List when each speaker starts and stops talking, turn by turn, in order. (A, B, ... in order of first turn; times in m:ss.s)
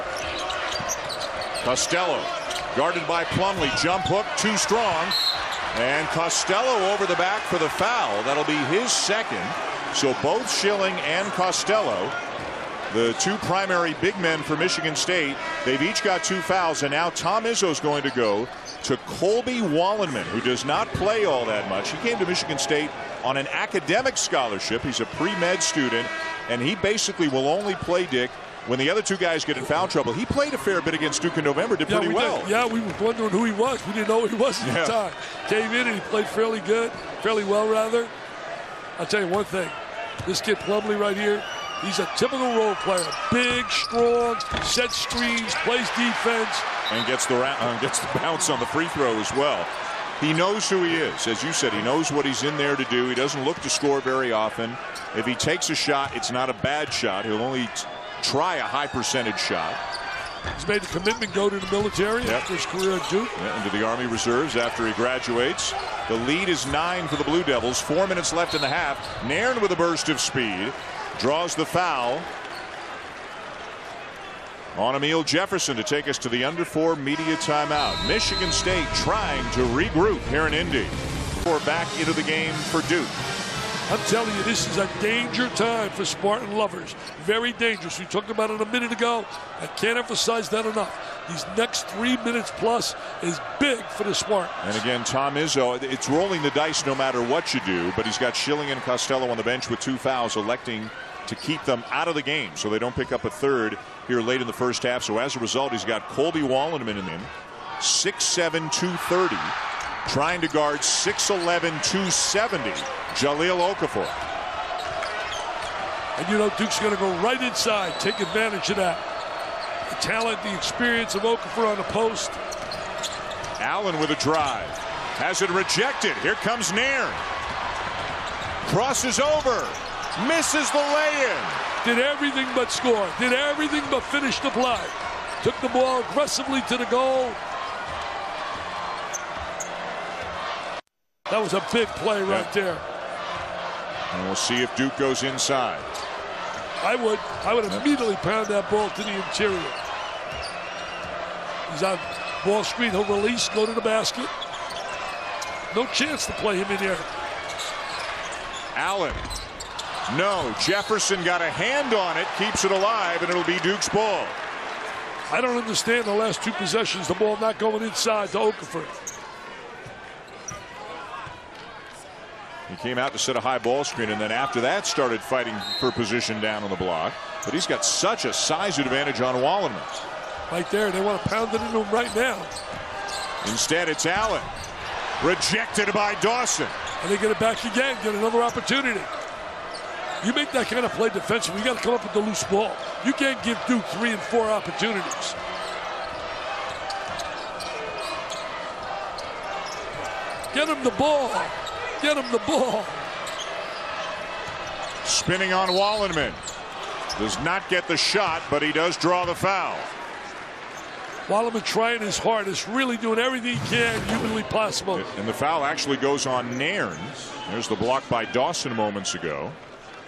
0:01.6-0:05.2 A
0:05.7-0:12.2 A
0:12.9-0:32.5 A
0:31.9-0:38.1 B
0:34.6-0:35.0 A
0:39.0-0:46.7 B
0:46.9-0:59.8 A
1:00.5-1:03.3 B
1:03.4-1:12.3 A
1:14.7-1:23.2 A
1:23.9-1:34.7 B
1:34.6-1:49.5 A
1:50.0-1:54.2 A
1:56.2-1:59.0 B
1:59.9-2:02.4 B
2:03.6-2:07.2 A
2:08.6-2:11.6 A
2:11.8-2:17.4 B
2:21.3-2:22.8 B
2:24.1-2:25.9 A
2:26.8-2:29.8 B
2:31.7-2:34.3 B
2:35.7-2:37.1 B
2:38.7-2:39.3 A
2:40.1-2:44.4 A
2:45.3-2:48.9 B
2:52.7-3:00.0 A
3:00.5-3:02.5 B
3:03.4-3:04.5 A
3:05.2-3:06.7 A
3:07.0-3:09.1 B
3:10.2-3:15.4 B
3:20.5-3:23.0 B
3:25.0-3:26.4 A
3:27.1-3:29.9 A
3:31.3-3:35.0 B
3:34.9-3:39.6 A